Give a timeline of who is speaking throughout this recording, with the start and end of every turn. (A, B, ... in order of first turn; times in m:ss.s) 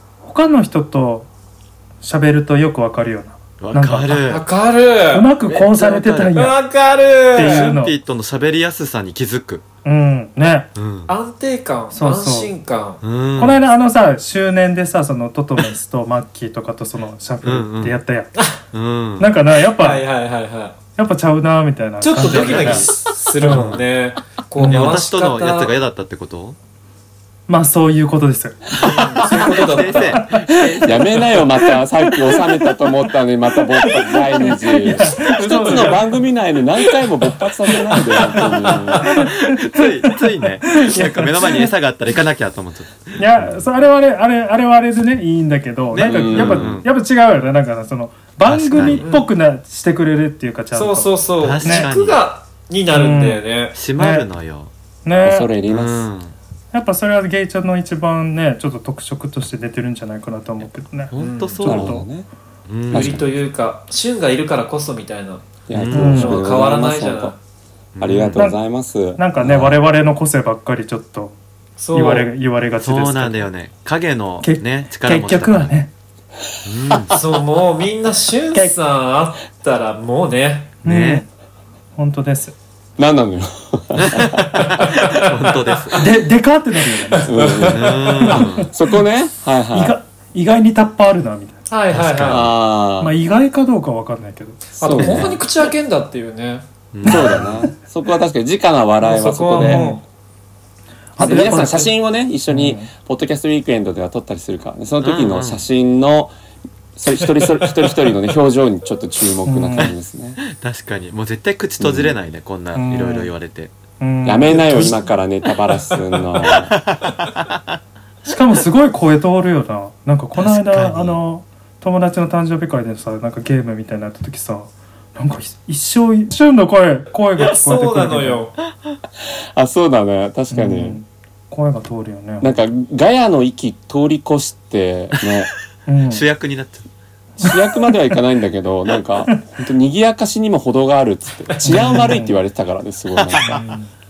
0:00.2-0:01.3 A
0:02.0-0:04.4 A
0:03.6-0:04.4 B
0:04.3-0:05.3 C
0:05.1-0:06.6 A
0:05.4-0:06.5 B
0:06.3-0:07.7 C
0:07.3-0:07.9 A
0:07.4-0:09.6 B
0:09.8-0:10.7 A
0:10.7-0:11.1 B
0:11.1-0:13.0 C
0:11.9-0:12.5 A
0:13.0-0:13.6 B
0:13.4-0:18.3 A
0:17.4-0:18.0 B
0:18.7-0:19.3 B
0:19.2-0:20.0 A
0:19.7-0:20.8 C
0:21.0-0:23.8 A
0:22.0-0:25.7 C
0:22.2-0:23.9 B
0:24.6-0:25.0 A
0:24.7-0:26.6 B
0:27.5-0:28.6 A
0:28.8-0:30.3 C
0:28.8-0:31.5 B
0:30.1-0:30.6 A
0:30.8-0:39.1 D
0:34.7-0:36.0 A
0:35.1-0:36.0 B
0:38.0-0:41.7 A
0:38.6-0:43.5 B
0:43.2-0:51.9 A
0:45.9-0:46.9 B
0:46.0-0:46.8 D
0:48.4-0:49.0 B
0:48.7-0:49.3 C
0:50.7-0:53.8 C
0:51.4-0:52.2 B
0:52.9-0:53.4 A
0:53.7-0:54.7 B
0:53.9-0:54.2 A
0:55.0-0:55.5 A
0:55.2-0:56.1 D
0:55.7-0:56.3 B
0:56.7-1:01.1 A
1:01.1-1:02.0 B
1:01.2-1:01.6 C
1:01.6-1:02.3 D
1:01.6-1:02.0 A
1:02.7-1:03.3 B
1:02.9-1:03.3 D
1:02.9-1:07.4 C
1:05.7-1:07.3 D
1:05.7-1:06.2 B
1:05.9-1:06.4 A
1:08.0-1:08.4 B
1:08.0-1:09.7 D
1:09.2-1:11.4 A
1:11.8-1:12.3 C
1:11.9-1:13.4 A
1:12.8-1:15.7 B
1:14.4-1:15.9 A
1:16.6-1:17.2 B
1:16.9-1:17.2 D
1:17.1-1:20.7 C
1:20.8-1:21.2 B
1:20.8-1:21.3 A
1:22.0-1:22.5 A
1:23.0-1:24.4 D
1:24.0-1:26.0 B
1:24.8-1:25.3 C
1:25.9-1:28.7 A
1:27.1-1:28.4 C
1:27.2-1:30.0 D
1:27.6-1:28.7 B
1:29.7-1:31.6 A
1:31.7-1:32.5 C
1:31.9-1:32.5 B
1:32.2-1:33.1 D
1:33.0-1:34.6 A
1:34.8-1:35.4 D
1:34.8-1:36.6 C
1:35.0-1:35.4 B
1:36.9-1:37.6 B
1:37.0-1:39.9 D
1:37.1-1:37.7 A
1:39.0-1:40.0 C
1:39.6-1:40.0 A
1:41.2-1:41.9 A
1:41.2-1:46.3 D
1:41.2-1:41.8 C
1:42.5-1:42.9 A
1:45.0-1:45.6 B
1:47.0-1:50.4 D
1:49.4-1:49.9 A
1:50.4-1:53.7 B
1:51.8-1:52.2 D
1:52.7-1:53.3 A
1:54.0-1:55.0 A
1:54.2-1:56.7 D
1:56.4-1:57.6 B
1:58.2-2:08.4 A
2:00.3-2:01.2 B
2:07.4-2:08.5 C
2:09.2-2:11.0 D
2:10.5-2:12.5 A
2:12.4-2:15.5 D
2:15.9-2:16.2 A
2:16.1-2:16.9 B
2:17.4-2:23.6 D
2:21.6-2:22.4 A
2:21.7-2:22.1 C
2:23.1-2:23.6 B
2:23.3-2:23.9 A